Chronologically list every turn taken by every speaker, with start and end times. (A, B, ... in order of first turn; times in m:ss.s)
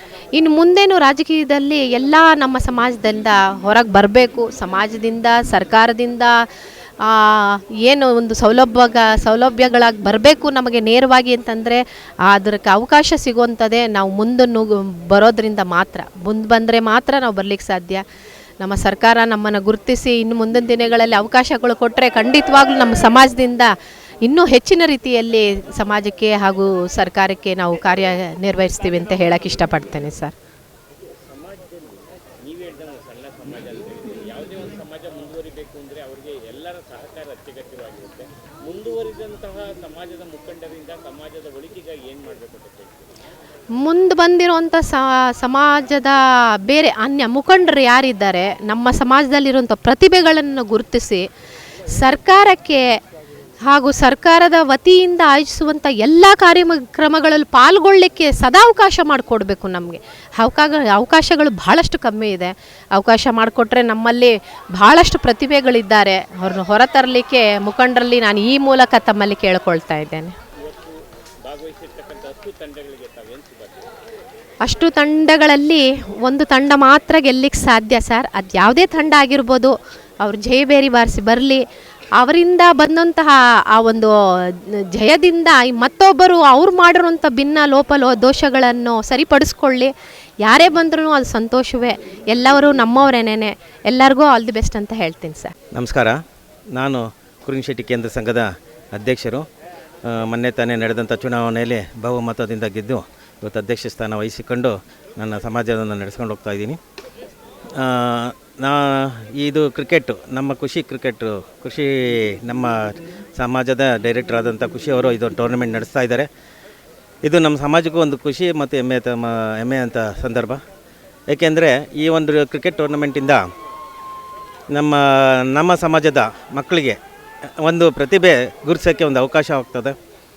0:00.3-0:06.4 A
0:07.0-0:18.0 A
0:18.6-0:23.7 A
0:24.2-0:30.3 A
0:31.3-0:43.0 B
0:43.8-0:51.2 A
0:51.9-0:53.0 A
0:53.7-1:10.3 A
1:10.7-1:13.9 B
1:14.6-1:21.6 A
1:22.2-1:29.9 A
1:30.4-1:35.5 A
1:35.7-1:36.2 C
1:36.8-1:39.4 C
1:40.0-1:46.8 C
1:47.8-1:56.3 C
1:57.2-2:00.6 C
2:01.3-2:03.4 C
2:04.7-2:07.0 C
2:07.6-2:10.0 C